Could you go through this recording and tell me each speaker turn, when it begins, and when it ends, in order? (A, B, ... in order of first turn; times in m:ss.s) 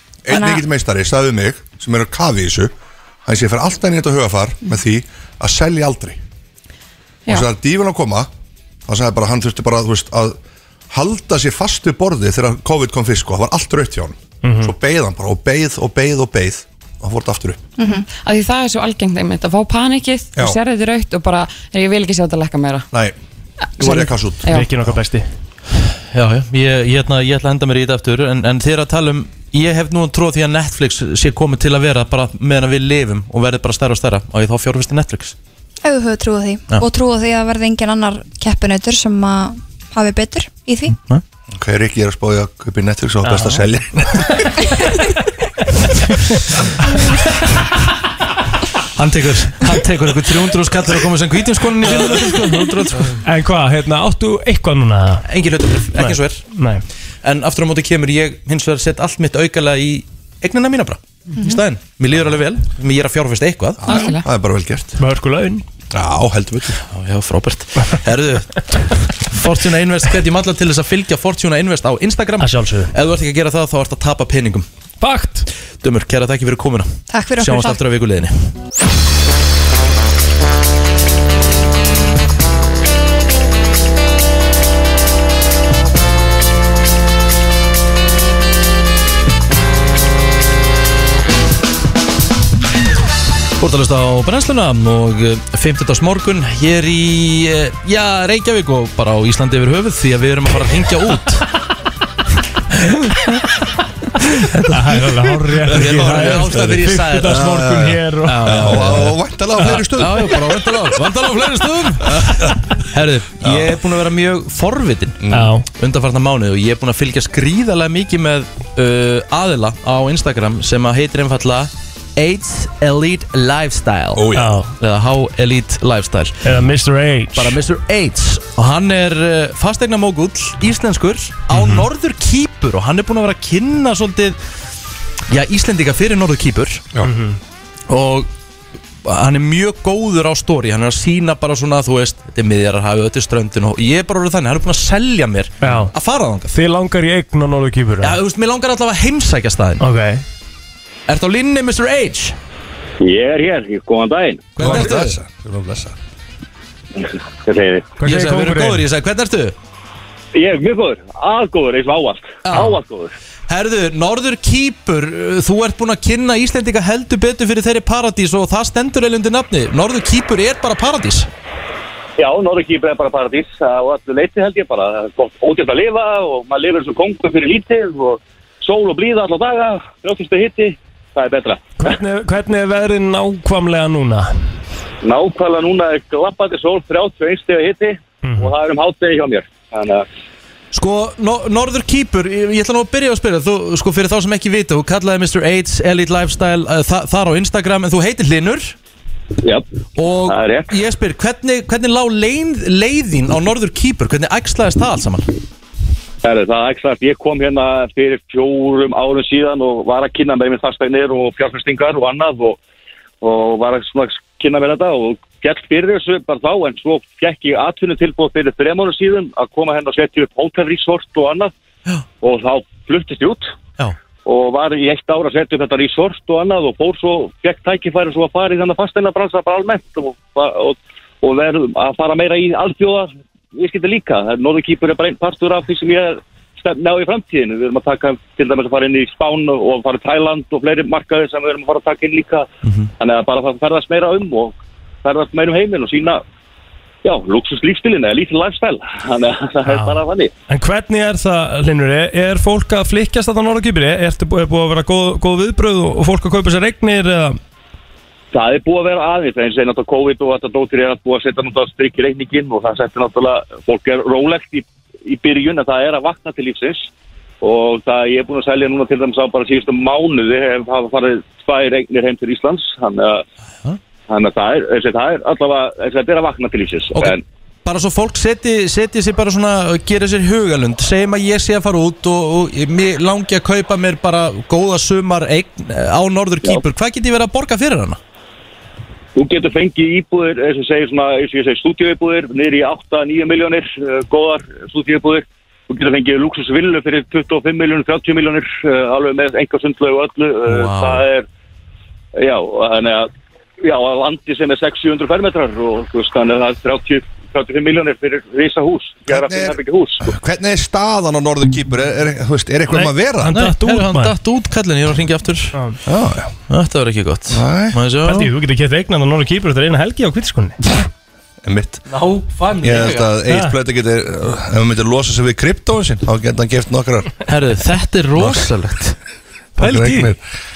0:00.2-0:02.7 A
0:00.3-0:00.7 B
0:03.2-0:06.2 A
0:07.3-0:08.3 A
0:08.9-0:10.4 A
0:10.9-0:17.6 A
0:14.4-0:14.7 C
0:17.8-0:18.0 B
0:18.1-0:22.9 D
0:23.7-0:24.7 D
0:23.8-0:24.5 A
0:24.4-0:25.2 C
0:25.9-0:35.4 E
0:35.8-0:41.0 B
0:41.5-0:44.4 A
0:43.3-0:43.5 C
0:49.0-0:53.2 E
0:51.8-0:55.2 C
0:55.2-0:56.4 E
0:56.0-0:56.8 C
0:57.2-1:03.9 E
1:03.8-1:05.0 A
1:03.9-1:04.2 B
1:03.9-1:04.2 D
1:05.0-1:05.6 C
1:05.9-1:06.8 A
1:06.8-1:14.7 E
1:12.4-1:12.9 C
1:15.0-1:15.5 C
1:15.8-1:18.5 E
1:17.1-1:17.8 B
1:33.6-1:41.4 E
1:44.5-1:45.0 E
1:44.6-1:49.0 C
1:45.6-1:50.8 A
1:45.6-1:47.5 E
1:48.2-2:06.4 E
1:52.1-1:52.5 A
1:53.4-1:53.7 A
1:55.2-1:55.5 A
1:55.3-1:55.6 C
2:04.1-2:04.5 A
2:04.3-2:04.7 C
2:06.4-2:07.6 C
2:07.3-2:14.4 E
2:11.5-2:11.8 C
2:15.3-2:16.9 E
2:17.0-2:17.4 C
2:17.9-2:18.3 E
2:19.0-2:26.5 E
2:25.6-2:25.9 C
2:26.5-2:28.2 C
2:28.0-2:29.8 E
2:29.8-2:30.2 C
2:31.1-2:32.4 E
2:33.0-2:34.6 F
2:34.6-2:35.2 E
2:34.6-2:36.0 A
2:37.0-2:37.9 F
2:38.0-2:38.8 C
2:38.0-2:39.6 E
2:40.3-2:43.1 F
2:42.4-2:42.8 E
2:43.5-2:51.3 E
2:52.2-3:02.0 F
3:01.8-3:04.3 C
3:05.0-3:10.0 F
3:08.2-3:08.5 C
3:10.7-3:18.8 E
3:20.0-3:25.3 E
3:20.2-3:20.7 F
3:26.2-3:32.6 F
3:33.2-3:41.5 F
3:42.2-3:43.5 F
3:44.2-4:02.5 F
4:02.6-4:02.9 E
4:03.0-4:06.2 F
4:07.0-4:10.3 F
4:09.6-4:17.4 C
4:18.3-4:26.9 F
4:27.4-4:33.2 F
4:34.1-4:37.2 F
4:36.9-4:48.0 E
4:49.2-5:01.2 F
5:00.5-5:01.0 E
5:02.2-5:10.0 F
5:09.1-5:13.3 A
5:12.7-5:14.1 C
5:13.2-5:15.6 E
5:15.8-5:16.4 A
5:16.5-5:18.3 E
5:17.3-5:17.8 A
5:18.0-5:20.7 C
5:21.4-5:21.8 A
5:21.9-5:23.1 E
5:22.6-5:27.2 A
5:23.3-5:23.5 C
5:27.2-5:29.0 E
5:28.2-5:28.5 A
5:29.6-5:30.2 A
5:29.6-5:30.1 C